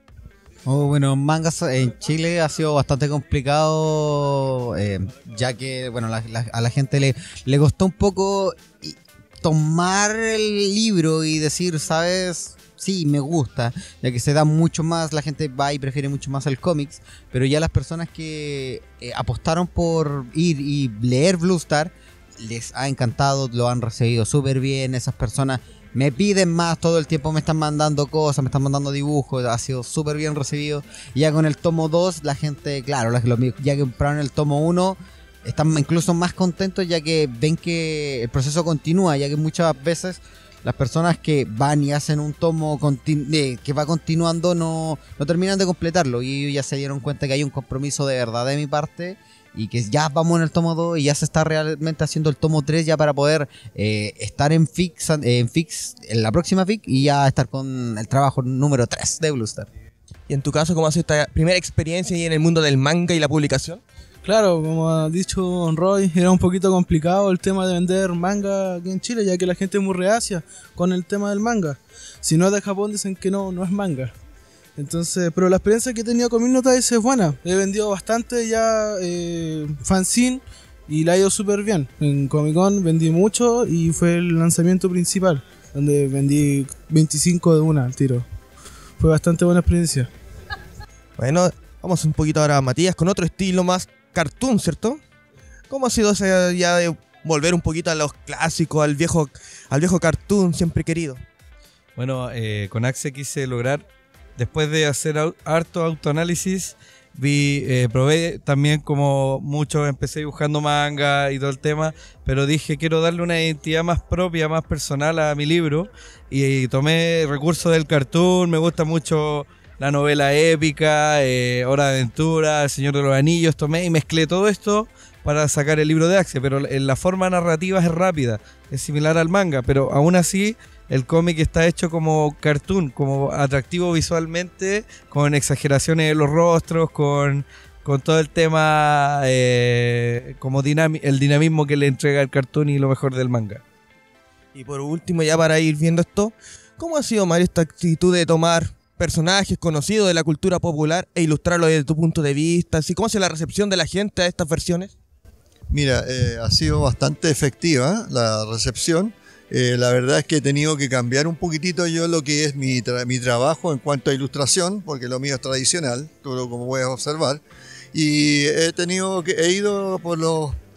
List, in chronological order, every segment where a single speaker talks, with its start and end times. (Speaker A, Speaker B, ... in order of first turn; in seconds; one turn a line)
Speaker A: 0.7-59.7
Speaker B: 60.3-63.8
Speaker C: 64.2-74.1
Speaker C: 74.8-88.2
Speaker C: 89.1-90.1
Speaker B: 91.2-95.0
Speaker B: 95.7-101.2
Speaker D: 102.0-103.8
Speaker D: 104.4-143.6
Speaker B: 144.5-154.9
Speaker E: 155.7-167.4
Speaker E: 167.9-170.6